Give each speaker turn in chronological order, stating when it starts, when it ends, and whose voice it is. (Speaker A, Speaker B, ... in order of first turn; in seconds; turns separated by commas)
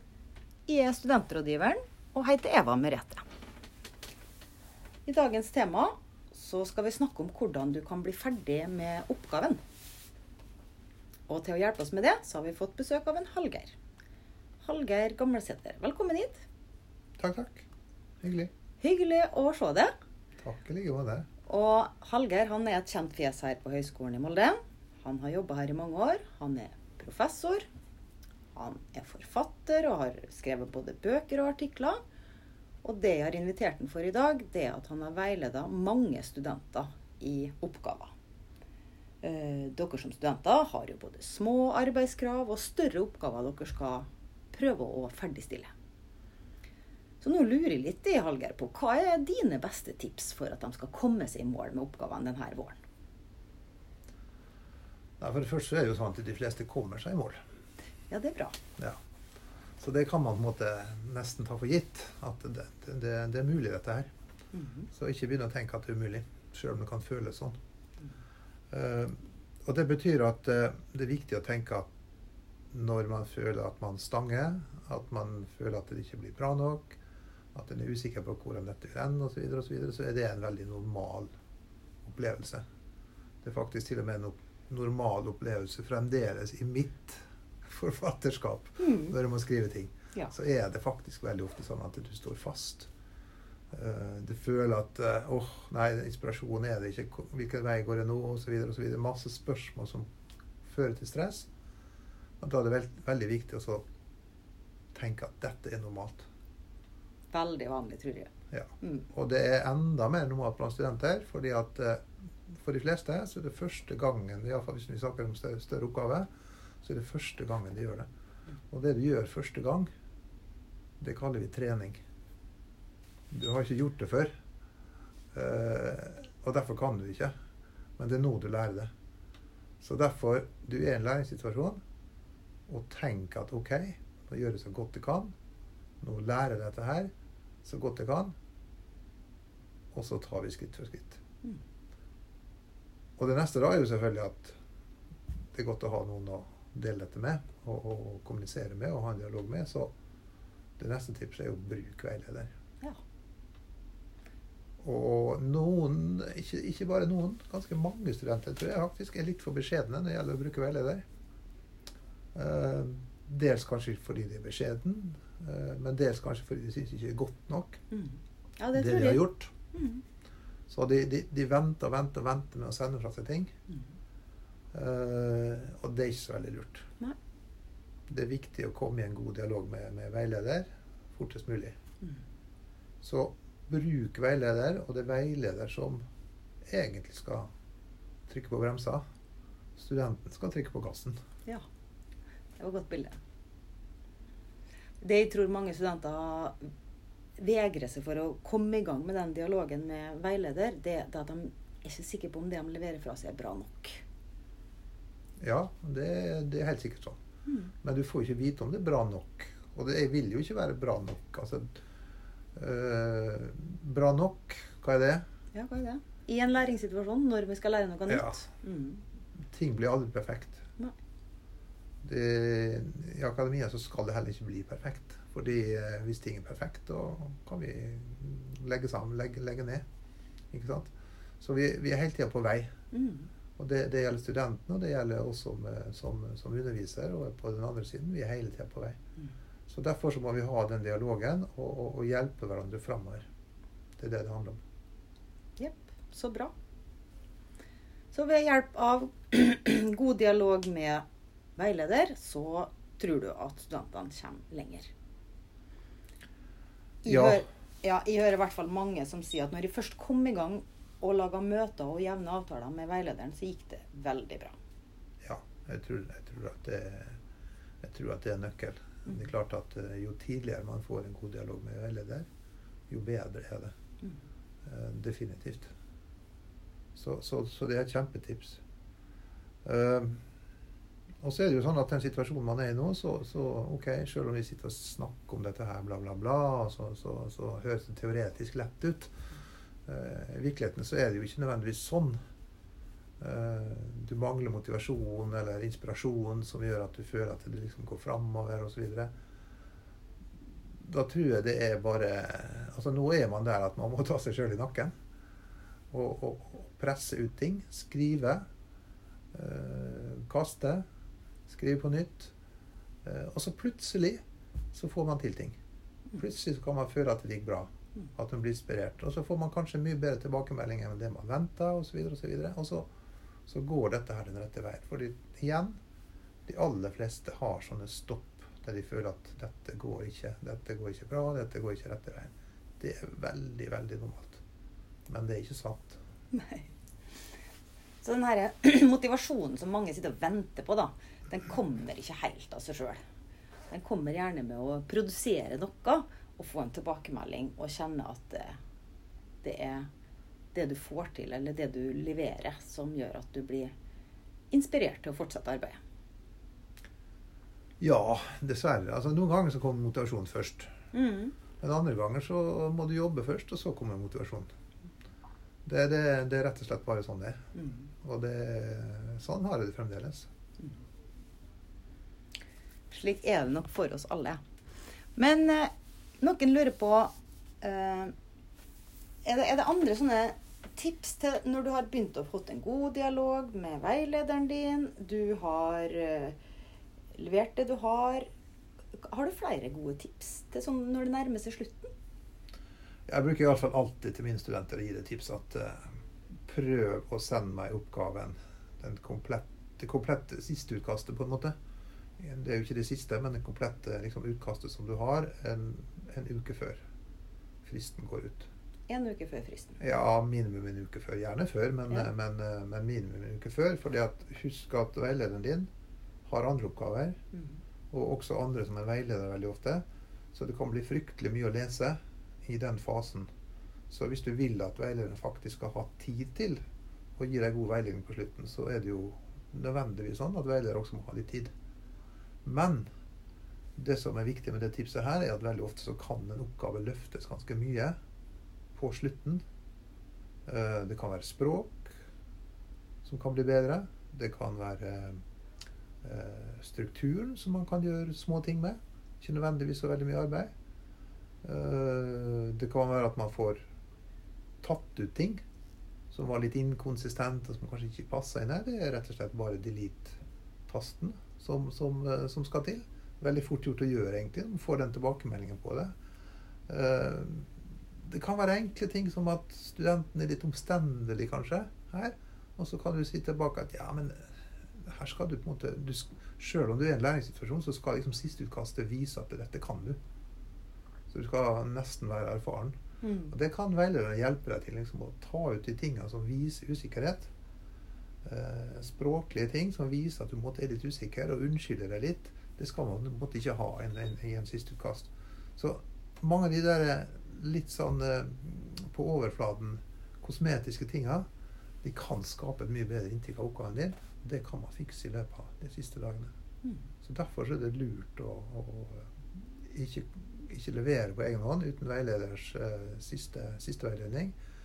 Speaker A: 0.7-3.2, Speaker A: 5.0-9.6, Speaker A: 11.3-13.7, Speaker A: 14.6-16.4, Speaker B: 17.2-17.6, Speaker B: 18.2-18.5, Speaker A: 18.8-19.9, Speaker B: 20.4-21.3, Speaker A: 21.4-27.6, Speaker A: 28.5-32.0, Speaker A: 32.8-38.1, Speaker A: 39.2-45.7, Speaker A: 47.2-52.8, Speaker B: 55.2-57.4, Speaker A: 58.1-58.6, Speaker B: 59.8-64.1, Speaker A: 64.5-64.9, Speaker B: 64.9-67.5, Speaker B: 68.7-71.9, Speaker B: 72.7-77.0, Speaker B: 77.5-81.3, Speaker B: 82.0-82.6, Speaker B: 83.4-92.9, Speaker A: 88.8-89.1, Speaker B: 93.7-100.1, Speaker B: 100.6-101.5, Speaker B: 102.4-103.8, Speaker B: 104.9-106.3, Speaker A: 107.3-108.3, Speaker B: 108.5-116.3, Speaker B: 116.8-118.1, Speaker B: 118.7-119.9, Speaker B: 121.0-122.0, Speaker B: 123.3-124.3, Speaker B: 125.3-127.3, Speaker B: 128.0-128.9, Speaker B: 129.8-131.8, Speaker B: 132.7-135.3, Speaker B: 136.0-137.1, Speaker B: 137.6-138.3, Speaker B: 139.9-141.2, Speaker B: 143.2-144.6, Speaker B: 145.5-149.9, Speaker B: 150.8-152.5, Speaker B: 154.8-161.0, Speaker B: 162.3-167.8, Speaker A: 167.9-170.0, Speaker B: 168.7-169.5, Speaker B: 170.7-173.5, Speaker B: 174.7-176.9, Speaker B: 178.1-181.7, Speaker B: 183.0-186.0, Speaker B: 186.6-187.5, Speaker B: 188.3-189.0, Speaker B: 189.8-191.2, Speaker A: 192.6-193.2, Speaker A: 195.0-196.7, Speaker A: 197.4-204.0, Speaker B: 205.4-207.2, Speaker A: 207.5-207.7, Speaker B: 207.8-211.7, Speaker B: 212.5-215.2, Speaker A: 215.5-219.0, Speaker B: 218.1-218.4, Speaker B: 219.4-220.6, Speaker B: 222.0-229.8, Speaker B: 230.5-232.7, Speaker A: 232.9-233.3, Speaker B: 233.6-239.0, Speaker B: 239.7-243.3, Speaker B: 244.0-244.6, Speaker A: 245.6-246.5, Speaker A: 248.1-251.0, Speaker A: 251.6-254.9, Speaker A: 257.0-264.6, Speaker B: 257.0-257.4, Speaker B: 265.2-267.2, Speaker B: 267.8-272.3, Speaker B: 272.9-273.7, Speaker B: 274.6-275.7, Speaker B: 276.9-278.6, Speaker B: 279.6-280.2, Speaker B: 281.2-289.1, Speaker B: 289.9-292.2, Speaker B: 293.2-299.1, Speaker B: 300.8-304.9, Speaker B: 305.9-308.4, Speaker B: 309.3-310.8, Speaker B: 311.5-312.3, Speaker B: 313.0-314.2, Speaker B: 314.7-315.6, Speaker B: 316.1-322.9, Speaker B: 323.5-325.8, Speaker B: 326.5-334.4, Speaker B: 335.1-336.0, Speaker A: 336.3-336.7, Speaker A: 338.0-343.0, Speaker A: 343.7-348.6, Speaker A: 349.4-349.9, Speaker A: 350.5-353.7, Speaker A: 354.5-355.8, Speaker B: 357.8-360.7, Speaker A: 360.9-361.3, Speaker B: 361.6-364.5, Speaker B: 365.6-367.4, Speaker A: 367.5-367.9, Speaker B: 368.0-370.3, Speaker A: 372.9-374.4, Speaker A: 375.1-378.1, Speaker A: 379.2-386.4, Speaker A: 387.1-388.3, Speaker A: 388.9-391.9, Speaker B: 393.1-395.9, Speaker B: 396.5-401.5, Speaker B: 402.2-406.8, Speaker B: 407.6-408.5, Speaker A: 408.9-409.8, Speaker B: 409.8-415.7, Speaker B: 416.2-417.2, Speaker B: 417.9-423.3, Speaker B: 423.9-426.6, Speaker B: 427.2-431.5, Speaker B: 432.4-432.9, Speaker B: 433.8-437.9, Speaker B: 438.7-439.4, Speaker B: 440.4-441.9, Speaker B: 443.0-445.2, Speaker B: 446.0-450.5, Speaker B: 451.4-453.6, Speaker B: 454.6-455.4, Speaker B: 456.1-465.9, Speaker B: 466.7-480.0, Speaker B: 481.1-482.7, Speaker A: 483.0-483.3, Speaker B: 483.3-487.3, Speaker B: 488.2-501.2, Speaker B: 501.8-506.3, Speaker B: 507.0-514.4